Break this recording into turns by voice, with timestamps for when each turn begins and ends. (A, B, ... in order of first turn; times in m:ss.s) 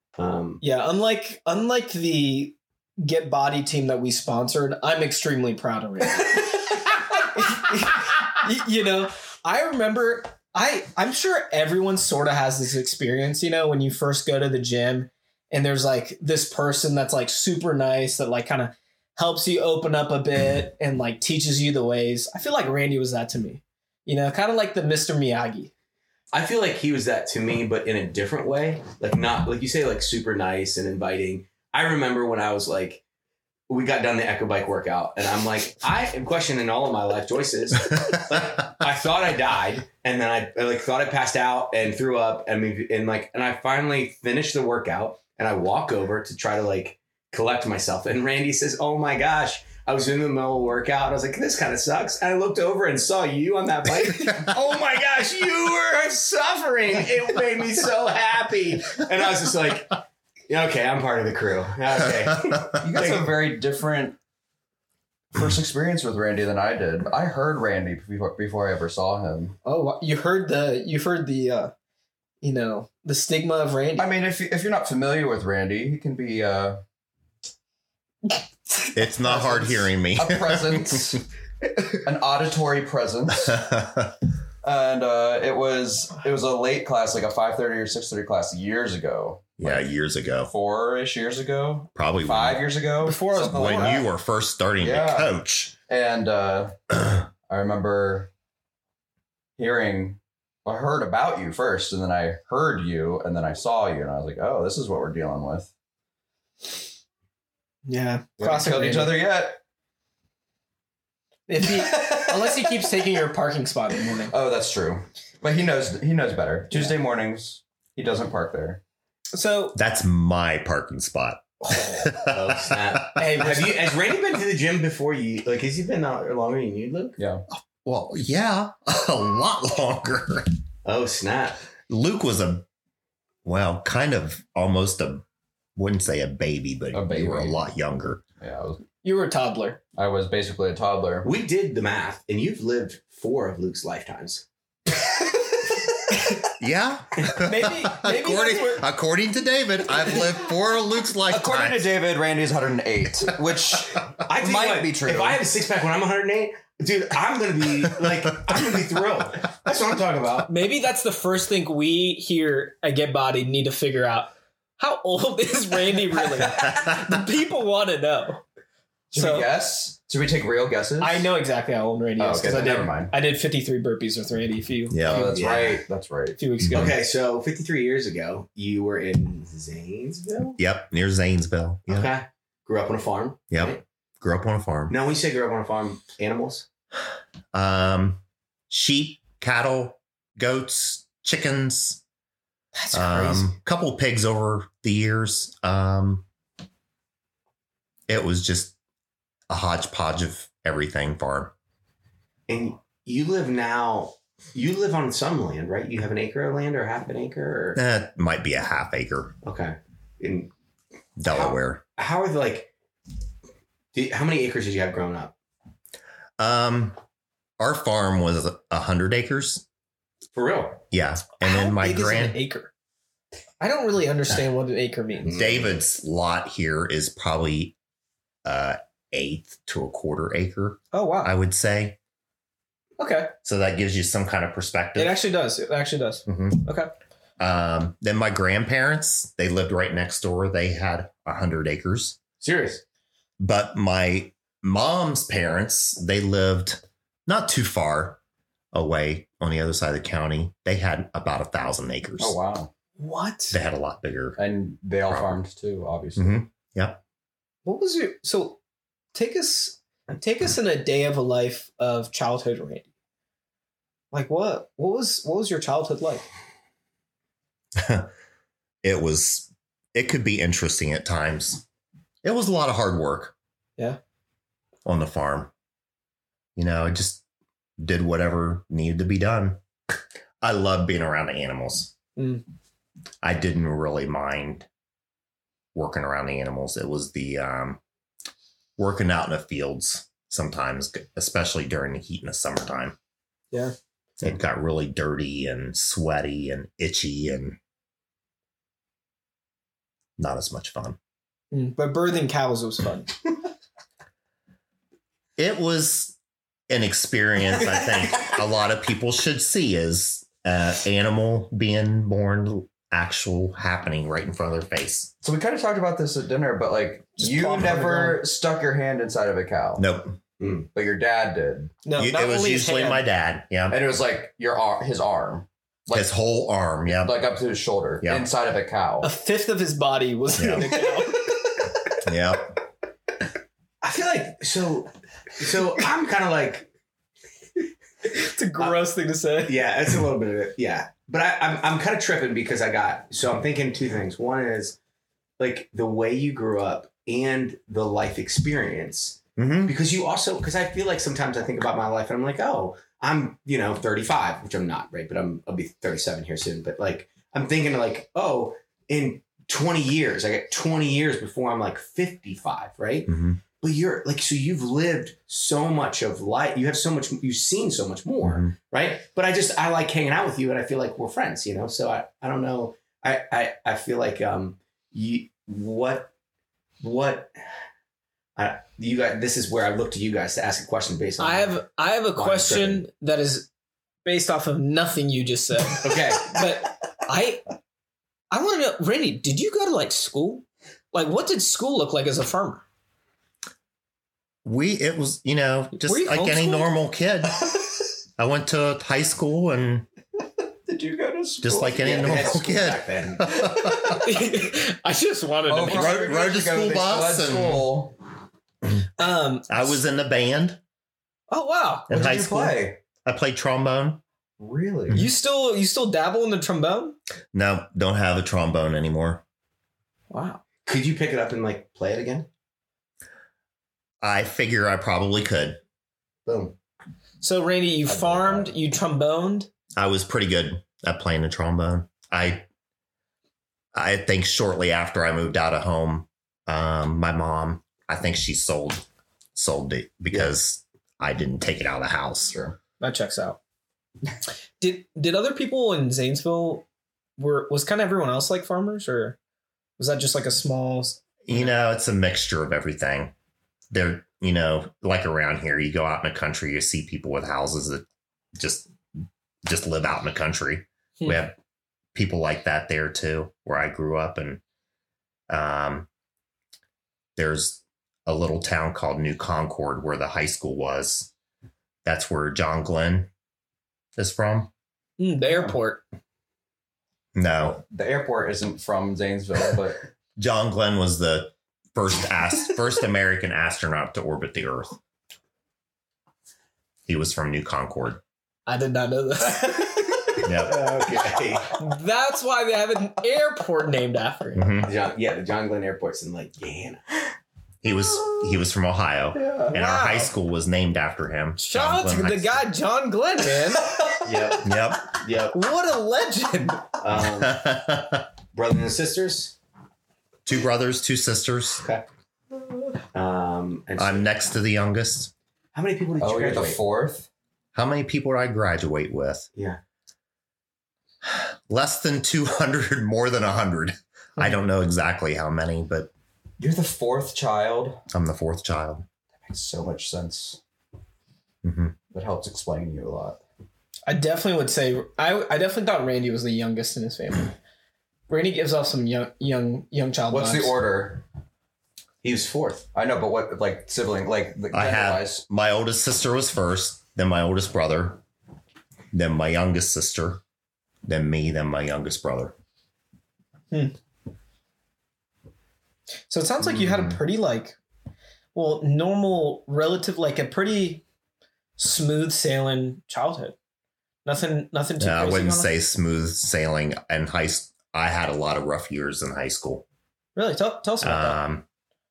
0:00.2-0:00.6 A
0:00.6-0:25.7 B
0:26.3-0:33.0 A
0:33.7-1:03.3 A
1:02.8-1:04.2 C
1:05.3-1:09.6 C
1:09.6-1:11.7 B
1:12.4-1:14.1 B
1:14.0-1:16.8 C
1:18.9-1:21.2 D
1:19.3-1:19.6 B
1:19.4-1:21.2 C
1:22.0-1:23.6 C
1:23.5-1:24.1 D
1:24.6-1:29.8 C
1:29.6-1:30.5 D
1:30.5-1:34.1 C
1:32.0-1:32.6 D
1:33.0-1:34.0 B
1:33.4-1:35.8 D
1:34.8-1:35.3 C
1:35.9-1:36.8 C
1:37.5-1:38.3 C
1:39.6-1:45.7 C
1:47.9-1:49.2 B
1:48.4-1:49.6 C
1:51.5-1:54.3 B
1:51.6-1:52.9 C
1:54.3-1:58.8 C
1:59.3-1:59.8 B
1:59.8-2:03.2 D
2:01.7-2:02.0 B
2:02.3-2:07.2 A
2:03.2-2:03.8 B
2:07.2-2:07.4 C
2:07.5-2:10.5 D
2:10.8-2:11.6 A
2:11.9-2:12.6 D
2:13.4-2:15.2 D
2:15.8-2:18.2 D
2:16.9-2:17.6 C
2:18.4-2:18.8 C
2:19.0-2:19.8 B
2:20.0-2:21.3 C
2:21.2-2:24.4 A
2:26.6-2:31.8 D
2:27.4-2:28.8 B
2:31.3-2:35.4 C
2:34.3-2:40.5 A
2:40.5-2:48.4 B
2:49.1-2:51.3 C
2:49.2-2:49.5 B
2:51.0-2:55.3 B
2:52.2-2:53.1 C
2:52.5-2:52.8 D
2:54.9-2:55.4 D
2:55.0-2:56.4 C
2:55.1-2:55.8 A
2:56.4-2:57.0 B
2:56.6-2:56.9 D
2:56.7-3:00.6 A
3:00.6-3:02.1 D
3:01.9-3:03.8 A
3:03.5-3:05.0 D
3:04.9-3:06.7 A
3:07.5-3:12.0 D
3:12.7-3:13.5 B
3:12.9-3:16.2 D
3:18.1-3:18.8 D
3:19.5-3:21.5 D
3:22.5-3:27.8 A
3:27.8-3:29.3 D
3:29.4-3:30.5 A
3:31.2-3:31.8 D
3:31.3-3:32.7 A
3:33.9-3:35.3 A
3:36.4-3:37.0 D
3:37.6-3:39.6 D
3:40.3-3:40.8 A
3:40.9-3:42.4 D
3:41.4-3:42.7 B
3:43.6-3:45.3 B
3:45.2-3:45.8 A
3:45.3-3:47.8 D
3:48.4-3:52.0 D
3:50.9-3:51.3 B
3:53.0-3:53.3 B
3:53.4-3:55.2 D
3:55.0-3:56.9 B
3:56.3-3:56.7 D
3:57.4-4:02.2 D
4:02.4-4:02.8 A
4:03.4-4:08.2 D
4:08.7-4:12.4 D
4:12.2-4:12.7 C
4:13.0-4:13.6 B
4:13.5-4:14.4 D
4:14.4-4:16.4 C
4:15.0-4:15.4 D
4:16.2-4:17.0 D
4:17.6-4:18.6 B
4:19.1-4:22.9 B
4:24.1-4:26.3 B
4:27.8-4:28.1 D
4:28.8-4:31.6 D
4:32.2-4:33.3 D
4:34.8-4:35.5 D
4:36.6-4:37.2 D
4:37.8-4:39.6 D
4:40.4-4:41.9 D
4:42.2-4:42.4 B
4:43.2-4:44.7 D
4:45.8-4:47.8 D
4:48.8-4:53.0 D
4:54.2-4:57.6 D
5:00.2-5:01.0 D
5:01.5-5:03.2 B
5:05.4-5:06.2 D
5:06.7-5:15.1 D
5:15.2-5:19.8 C
5:17.2-5:18.2 B
5:19.8-5:20.2 D
5:20.4-5:20.7 A
5:20.7-5:21.7 C
5:21.8-5:23.0 B
5:22.0-5:23.8 D
5:23.7-5:26.1 C
5:25.9-5:27.2 D
5:27.0-5:29.1 C
5:28.0-5:28.3 D
5:29.0-5:31.4 B
5:30.4-5:30.7 D
5:32.0-5:32.5 D
5:33.8-5:36.7 A
5:38.0-5:39.6 B
5:39.5-5:44.8 A
5:45.4-6:16.1 A
5:49.4-5:49.7 D
6:03.1-6:03.4 D
6:08.2-6:08.5 D
6:16.8-6:17.3 A
6:18.4-6:21.6 A
6:21.2-6:23.5 B
6:22.2-6:22.8 A
6:24.0-6:27.5 B
6:25.8-6:26.4 A
6:28.3-6:32.6 B
6:34.4-6:37.6 D
6:35.7-6:36.7 B
6:38.2-6:39.9 D
6:40.7-6:42.3 C
6:41.4-6:44.1 D
6:41.6-6:43.5 A
6:44.0-6:46.2 B
6:45.5-6:48.0 C
6:45.6-6:47.6 D
6:49.0-6:49.8 B
6:49.5-6:50.6 D
6:51.3-6:51.9 B
6:51.9-6:54.0 D
6:51.9-6:52.8 C
6:54.4-6:55.0 C
6:54.9-6:57.0 B
6:57.3-6:59.2 D
7:00.1-7:00.4 B
7:00.7-7:02.3 A
7:04.0-7:05.6 D
7:06.3-7:06.6 A
7:07.2-7:09.5 B
7:07.9-7:08.5 A
7:09.8-7:12.5 D
7:13.7-7:22.4 D
7:22.8-7:23.4 B
7:24.6-7:26.7 B
7:27.2-7:29.2 B
7:29.8-7:31.5 B
7:31.2-7:33.1 D
7:33.7-7:38.7 D
7:39.4-7:41.4 D
7:41.9-7:44.4 D
7:45.3-7:45.9 D
7:47.2-7:51.1 D
7:51.8-7:53.1 D
7:54.0-7:54.5 D
7:55.0-7:55.8 B
7:55.3-7:55.6 C
7:57.2-7:57.6 D
7:57.4-7:59.8 C
8:00.2-8:04.8 D
8:06.9-8:08.0 D
8:08.5-8:10.6 B
8:10.2-8:10.6 D
8:10.4-8:11.6 A
8:11.6-8:14.6 B
8:14.4-8:14.7 D
8:14.7-8:17.1 A
8:17.6-8:22.5 D
8:19.2-8:20.1 B
8:21.4-8:24.1 B
8:24.0-8:25.4 A
8:24.4-8:25.0 D
8:25.3-8:26.8 B
8:26.8-8:27.4 A
8:26.9-8:28.1 D
8:28.3-8:29.4 A
8:30.3-8:31.6 D
8:31.6-8:31.9 A
8:32.9-8:34.1 A
8:33.8-8:35.1 D
8:35.6-8:36.6 A
8:36.0-8:37.1 C
8:37.5-8:39.3 D
8:41.0-8:45.9 D
8:46.4-8:47.8 C
8:47.9-8:48.8 D
8:49.2-8:50.4 C
8:51.4-8:51.8 D
8:51.9-8:53.2 C
8:53.9-8:57.4 B
8:58.1-9:00.6 B
9:00.1-9:01.0 C
9:02.0-9:02.6 A
9:02.7-9:05.2 C
9:04.5-9:08.0 D
9:08.9-9:10.2 D
9:10.8-9:12.4 D
9:16.1-9:17.6 B
9:18.3-9:20.8 B
9:21.6-9:23.4 B
9:24.0-9:25.5 B
9:24.8-9:29.6 D
9:30.2-9:31.2 B
9:30.8-9:31.4 D